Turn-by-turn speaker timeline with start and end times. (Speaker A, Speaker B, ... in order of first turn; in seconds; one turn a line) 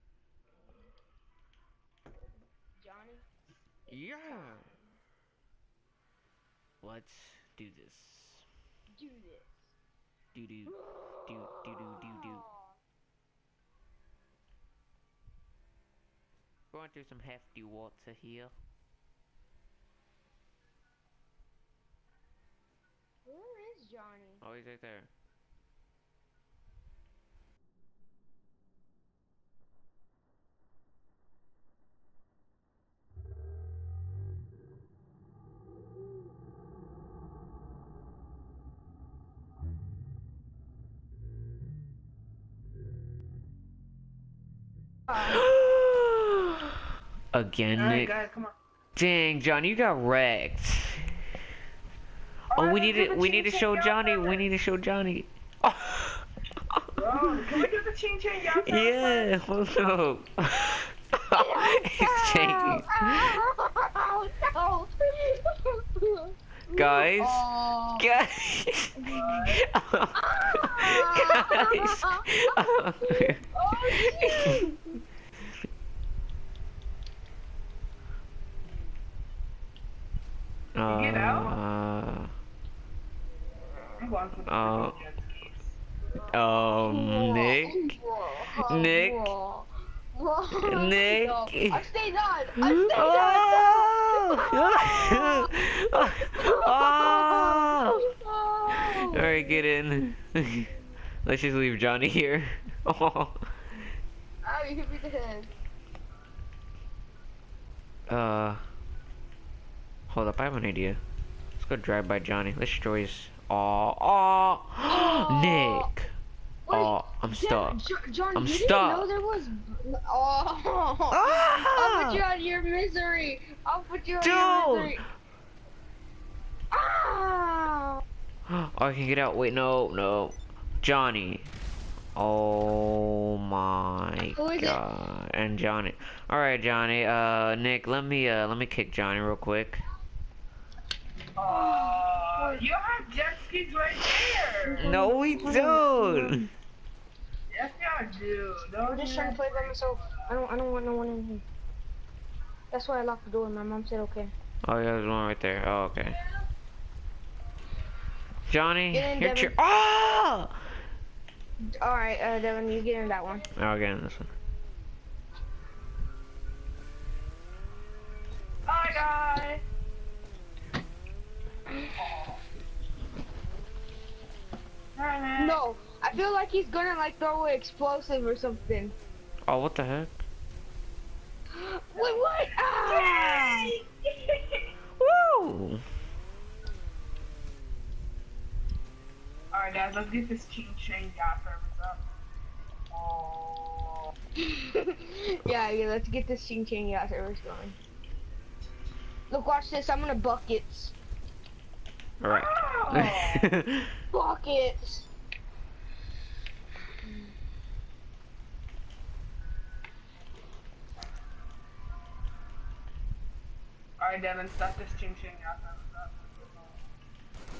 Speaker A: 2.1-3.2
Speaker A: 3.9-4.9
Speaker B: 3.9-4.7
Speaker B: 6.8-8.4
Speaker A: 8.9-9.7
Speaker B: 10.3-12.4
Speaker A: 10.7-11.1
Speaker A: 11.8-12.8
Speaker B: 16.7-18.5
Speaker A: 23.2-24.4
Speaker B: 24.4-25.1
Speaker B: 45.1-46.3
Speaker B: 47.3-48.2
Speaker C: 47.7-48.5
Speaker B: 48.9-51.1
Speaker C: 52.5-54.4
Speaker B: 52.5-56.8
Speaker C: 56.9-59.3
Speaker B: 58.5-63.4
Speaker A: 61.3-68.0
Speaker B: 66.7-73.4
Speaker A: 69.0-69.3
Speaker C: 69.1-69.7
Speaker A: 70.2-74.7
Speaker B: 73.9-74.6
Speaker B: 80.7-82.3
Speaker C: 80.8-81.6
Speaker C: 84.0-85.8
Speaker B: 84.4-85.0
Speaker B: 86.3-88.0
Speaker A: 86.8-99.6
Speaker B: 88.7-89.3
Speaker B: 90.6-91.8
Speaker B: 92.6-98.0
Speaker B: 98.7-100.7
Speaker B: 101.2-103.5
Speaker A: 104.4-105.5
Speaker B: 108.1-108.6
Speaker B: 110.1-111.0
Speaker B: 111.6-116.1
Speaker A: 114.9-115.9
Speaker A: 116.7-125.0
Speaker B: 116.7-117.8
Speaker B: 118.3-119.1
Speaker B: 121.1-122.2
Speaker B: 124.2-125.0
Speaker A: 126.7-128.0
Speaker B: 128.5-131.5
Speaker B: 132.1-139.8
Speaker A: 134.3-134.8
Speaker C: 141.3-145.0
Speaker A: 141.4-142.6
Speaker A: 144.7-146.5
Speaker B: 144.8-146.4
Speaker C: 147.5-150.3
Speaker A: 148.8-151.4
Speaker A: 152.7-154.3
Speaker B: 154.6-156.2
Speaker B: 158.5-160.5
Speaker A: 158.9-159.5
Speaker A: 161.8-163.5
Speaker B: 163.5-164.3
Speaker C: 168.7-169.6
Speaker C: 172.0-172.4
Speaker C: 174.9-175.6
Speaker A: 175.3-178.9
Speaker B: 179.4-180.2
Speaker A: 181.5-183.7
Speaker C: 182.7-183.7
Speaker B: 185.0-185.8
Speaker C: 189.5-192.1
Speaker C: 192.9-194.1
Speaker A: 194.4-197.8
Speaker A: 199.3-200.9
Speaker B: 202.2-203.9
Speaker C: 202.3-203.6
Speaker A: 204.1-205.1
Speaker A: 207.0-207.3
Speaker C: 214.0-216.8